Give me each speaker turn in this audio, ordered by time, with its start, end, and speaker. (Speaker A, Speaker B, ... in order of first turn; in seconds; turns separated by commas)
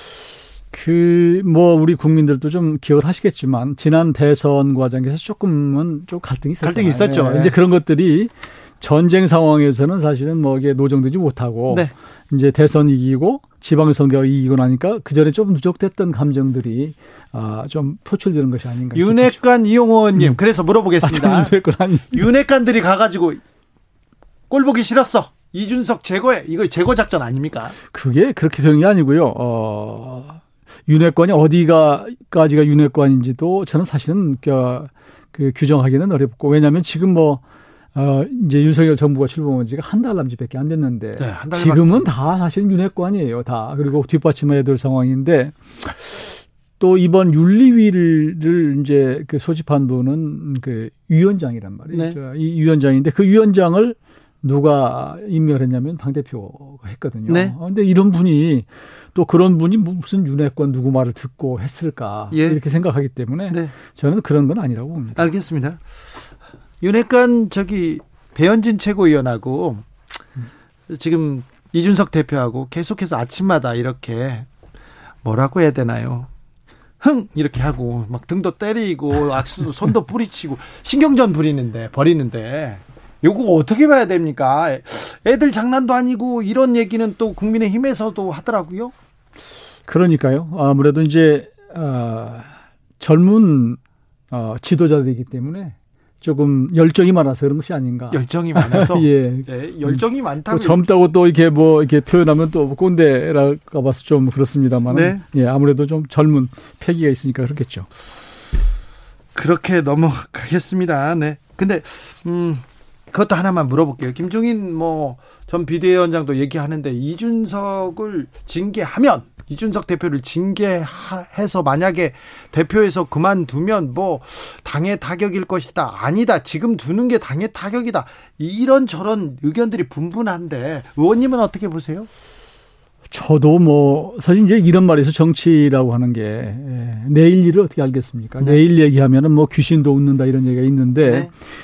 Speaker A: 0.7-19.4, Speaker B: 6.6-7.5, Speaker B: 18.9-21.5, Speaker A: 21.0-22.3, Speaker B: 22.1-23.4, Speaker B: 24.5-27.7, Speaker A: 27.9-37.4, Speaker A: 37.9-46.3, Speaker B: 41.2-42.1, Speaker A: 46.8-65.3, Speaker B: 51.9-52.2, Speaker B: 57.3-57.5, Speaker B: 62.3-62.6, Speaker B: 65.2-65.8, Speaker B: 66.8-69.9, Speaker B: 70.9-74.5, Speaker B: 75.2-76.3, Speaker B: 77.0-88.9, Speaker A: 89.9-93.8, Speaker A: 94.3-107.9, Speaker B: 98.1-100.8, Speaker B: 104.9-105.2, Speaker B: 109.3-132.1, Speaker A: 133.1-141.3, Speaker B: 141.1-141.3